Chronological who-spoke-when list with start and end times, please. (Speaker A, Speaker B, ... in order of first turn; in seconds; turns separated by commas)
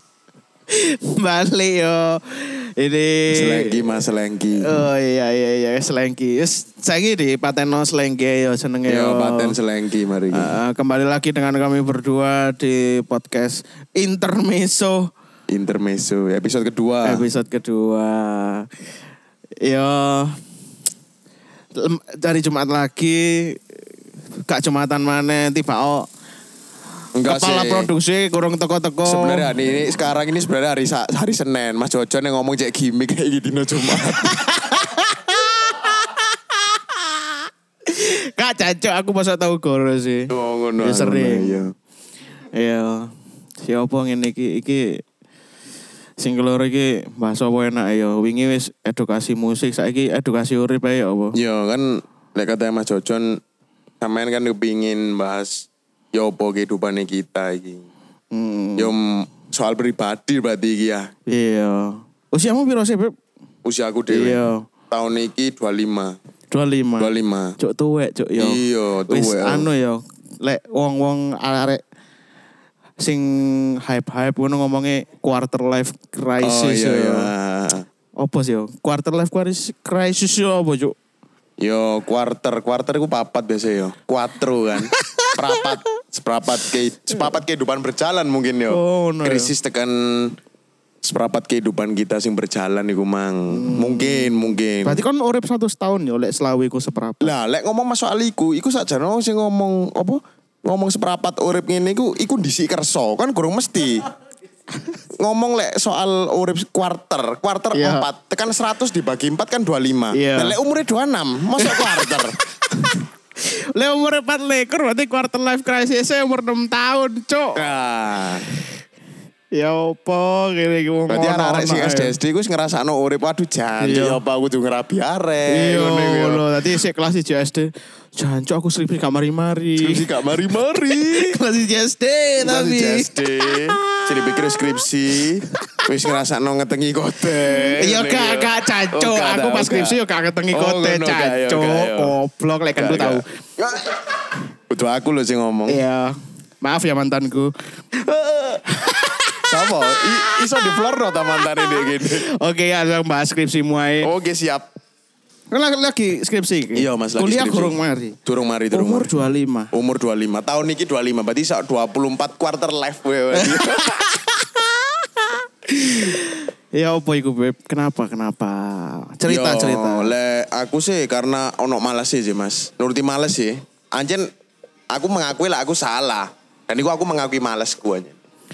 Speaker A: 0.7-3.8, Speaker B: 3.3-4.7, Speaker A: 4.6-9.6, Speaker B: 8.9-10.5, Speaker A: 10.3-15.1, Speaker B: 15.5-17.2, Speaker A: 17.0-18.7, Speaker A: 19.6-20.4, Speaker A: 21.7-23.6, Speaker A: 24.5-26.1, Speaker B: 27.1-27.9, Speaker A: 27.2-29.5, Speaker B: 29.0-34.5, Speaker A: 34.0-41.6, Speaker B: 40.3-41.7, Speaker A: 42.5-43.1, Speaker A: 43.6-45.0, Speaker A: 46.2-51.4, Speaker B: 51.3-53.4, Speaker B: 54.0-57.9, Speaker A: 58.3-58.9, Speaker B: 58.8-61.1, Speaker A: 61.3-63.1, Speaker B: 63.6-66.2, Speaker A: 64.1-64.6, Speaker A: 66.5-71.8, Speaker B: 67.0-67.6, Speaker B: 68.4-69.7, Speaker A: 73.0-77.3, Speaker B: 76.4-77.8, Speaker A: 78.2-80.9, Speaker B: 81.6-90.3, Speaker A: 84.8-85.6, Speaker A: 88.7-89.5, Speaker B: 91.0-95.0, Speaker A: 93.5-97.3, Speaker B: 97.2-104.0, Speaker B: 105.2-112.4, Speaker A: 107.7-108.1, Speaker A: 110.1-110.5, Speaker A: 111.6-112.2, Speaker A: 112.8-117.6, Speaker B: 117.5-118.5, Speaker A: 119.5-122.1, Speaker B: 121.1-126.4, Speaker A: 123.8-124.2, Speaker A: 125.5-130.1, Speaker B: 129.8-131.4, Speaker A: 130.7-134.5, Speaker B: 132.4-140.0, Speaker A: 137.8-143.2, Speaker B: 140.5-142.1, Speaker B: 142.8-143.9, Speaker B: 144.7-145.8, Speaker A: 145.7-147.5, Speaker B: 148.0-148.6, Speaker A: 148.8-149.5, Speaker B: 149.4-152.3, Speaker A: 150.5-154.1, Speaker B: 154.0-154.7, Speaker A: 155.5-158.2, Speaker B: 156.7-159.1, Speaker A: 158.7-159.7, Speaker B: 159.7-164.1, Speaker A: 163.3-170.1, Speaker B: 169.2-174.3, Speaker B: 174.9-178.2